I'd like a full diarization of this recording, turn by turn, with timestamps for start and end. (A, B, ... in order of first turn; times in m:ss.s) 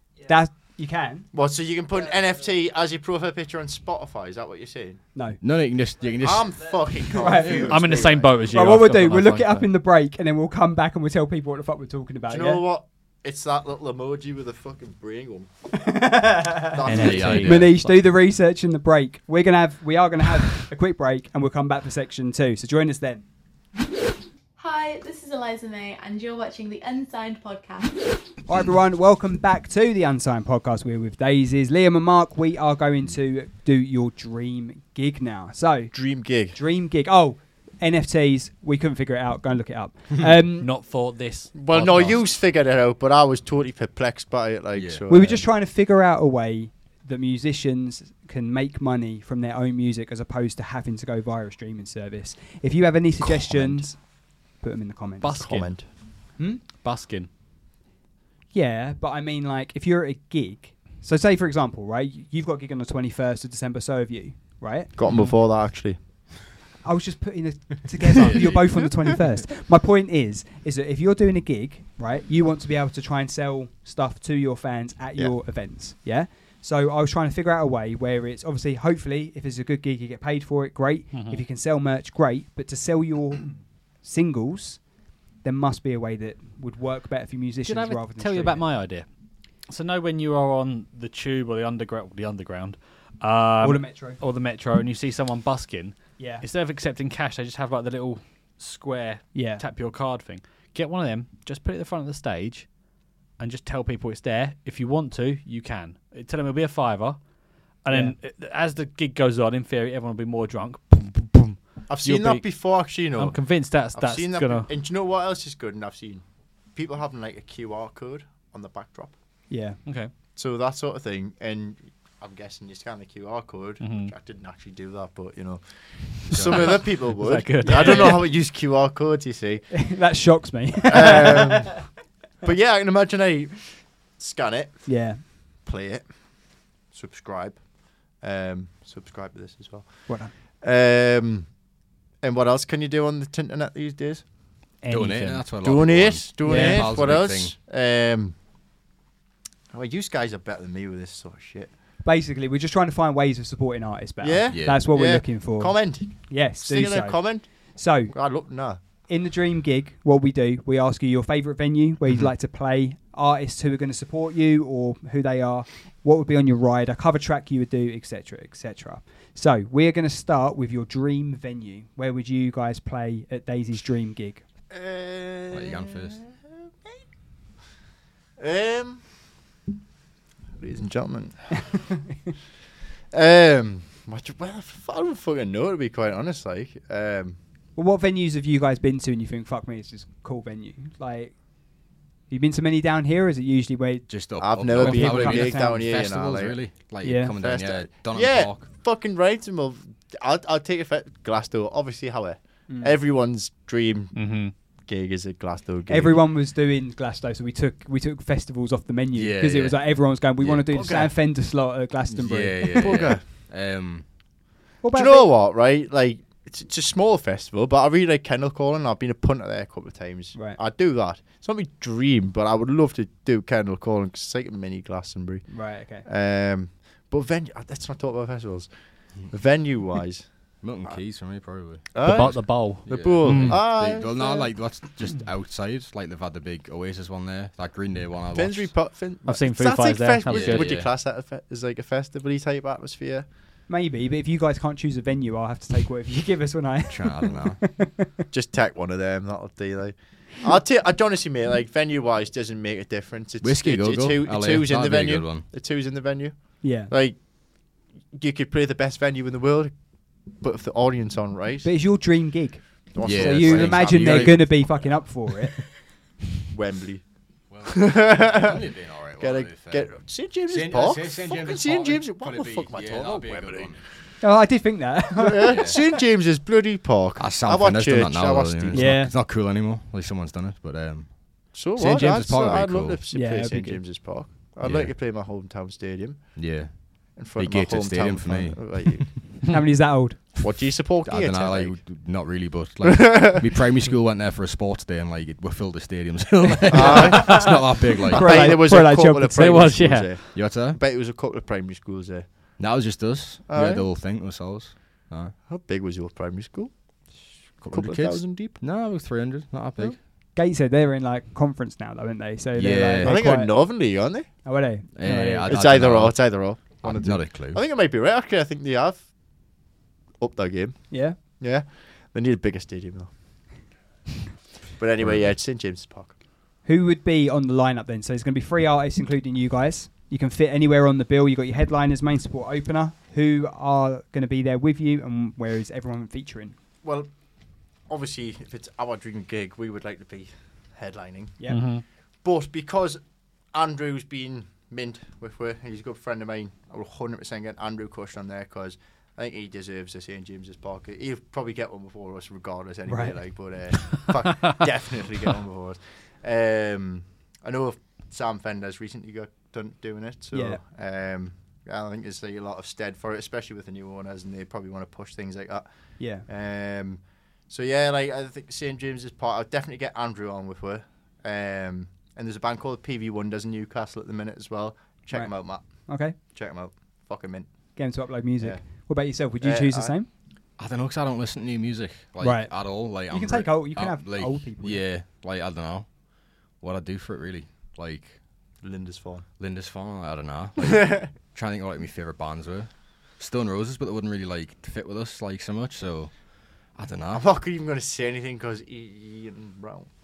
0:00.2-0:01.3 A
0:01.3-0:05.0 B
0:05.1-0:05.4 A
0:05.4-0:07.4 C
0:06.2-0:08.5 B
0:07.1-0:07.8 A
0:07.7-0:09.7 D
0:08.4-0:12.6 A
0:12.3-0:15.5 B
0:15.7-0:23.2 A
0:16.7-0:17.6 B
0:16.8-0:18.0 D
0:16.9-0:17.7 C
0:24.6-0:28.4 E
0:28.4-0:40.7 A
0:35.9-0:36.6 B
0:40.6-0:42.2 D
0:41.5-0:45.4 B
0:44.7-0:45.0 C
0:45.1-0:55.5 A
0:53.4-0:53.9 B
0:55.2-0:57.3 D
0:55.4-0:55.9 B
0:56.4-0:56.6 A
0:58.5-1:04.9 A
1:05.0-1:06.0 B
1:05.1-1:05.3 D
1:06.8-1:28.7 A
1:08.2-1:08.6 C
1:21.1-1:21.4 D
1:27.6-1:29.1 D
1:29.6-1:54.7 D
1:33.6-1:34.2 A
1:36.2-1:36.4 A
1:39.3-1:39.6 A
1:47.9-1:48.2 A
1:51.9-1:59.2 B
1:59.5-1:59.8 A
1:59.8-2:00.1 D
2:00.3-2:09.9 B
2:03.8-2:04.1 D
2:06.3-2:07.0 C
2:06.5-2:08.3 D
2:07.6-2:08.2 A
2:09.7-2:11.7 A
2:10.9-2:21.6 B
2:14.8-2:15.2 A
2:20.1-2:20.3 A
2:22.2-2:24.3 B
2:24.8-2:25.4 D
2:24.9-2:27.6 C
2:25.6-2:28.4 B
2:26.4-2:26.9 A
2:29.7-2:31.7 B
2:32.0-2:38.1 A
2:34.2-2:38.8 B
2:34.5-2:34.8 C
2:39.0-2:54.4 A
2:54.7-2:56.3 B
2:55.5-2:56.2 C
2:58.4-2:59.2 B
3:00.6-3:01.8 B
3:03.1-3:07.4 B
3:07.8-3:15.8 A
3:14.1-3:18.7 C
3:14.4-3:16.6 B
3:17.0-3:17.3 A
3:17.3-3:26.2 B
3:22.7-3:22.9 A
3:24.1-3:24.5 D
3:25.9-3:33.0 A
3:29.1-3:30.6 C
3:30.7-3:31.1 B
3:32.1-3:34.1 C
3:32.7-3:33.2 B
3:34.8-3:35.3 A
3:34.9-3:51.0 B
3:40.3-3:40.6 A
3:45.5-3:46.0 A
3:50.6-3:58.7 C
3:51.9-3:54.5 B
3:52.0-3:53.6 D
3:58.3-4:03.3 B
3:59.2-4:00.8 D
4:00.2-4:00.9 C
4:03.7-4:08.1 A
4:06.9-4:07.6 C
4:08.3-4:22.2 B
4:13.4-4:15.4 C
4:16.6-4:16.9 A
4:21.6-4:25.8 A
4:22.9-4:24.7 B
4:23.0-4:25.0 C
4:26.5-4:33.8 B
4:27.5-4:33.8 C
4:34.2-4:35.9 A
4:35.2-4:38.9 B
4:35.4-4:35.8 C
4:37.2-4:43.0 C
4:38.7-4:39.1 A
4:41.5-4:49.2 B
4:43.1-4:43.8 A
4:44.6-4:44.9 C
4:46.3-4:49.2 C
4:49.5-4:50.4 A
4:50.4-4:51.8 B
4:51.0-4:58.5 C
4:52.9-4:53.4 B
4:56.7-5:02.8 B
4:57.0-4:59.8 A
4:59.3-5:00.2 D
5:00.3-5:00.8 C
5:02.6-5:05.3 C
5:03.5-5:03.9 B
5:05.5-5:08.6 B
5:07.6-5:10.0 C
5:09.8-5:15.6 A
5:12.5-5:13.3 C
5:13.0-5:14.6 B
5:14.9-5:17.6 C
5:15.4-5:23.7 B
5:20.9-5:21.2 A
5:24.8-5:26.2 B
5:25.0-5:25.4 C
5:26.6-5:36.6 A
5:36.8-6:20.0 B
5:41.4-5:41.6 A
5:41.5-5:41.8 D
5:52.9-5:53.2 A
6:00.3-6:00.6 A
6:06.0-6:06.2 A
6:15.1-6:16.2 A
6:17.8-6:20.1 A
6:20.6-6:28.2 C
6:22.2-6:24.8 A
6:28.6-6:29.2 B
6:29.4-6:37.2 C
6:30.6-6:31.1 B
6:37.1-6:39.9 B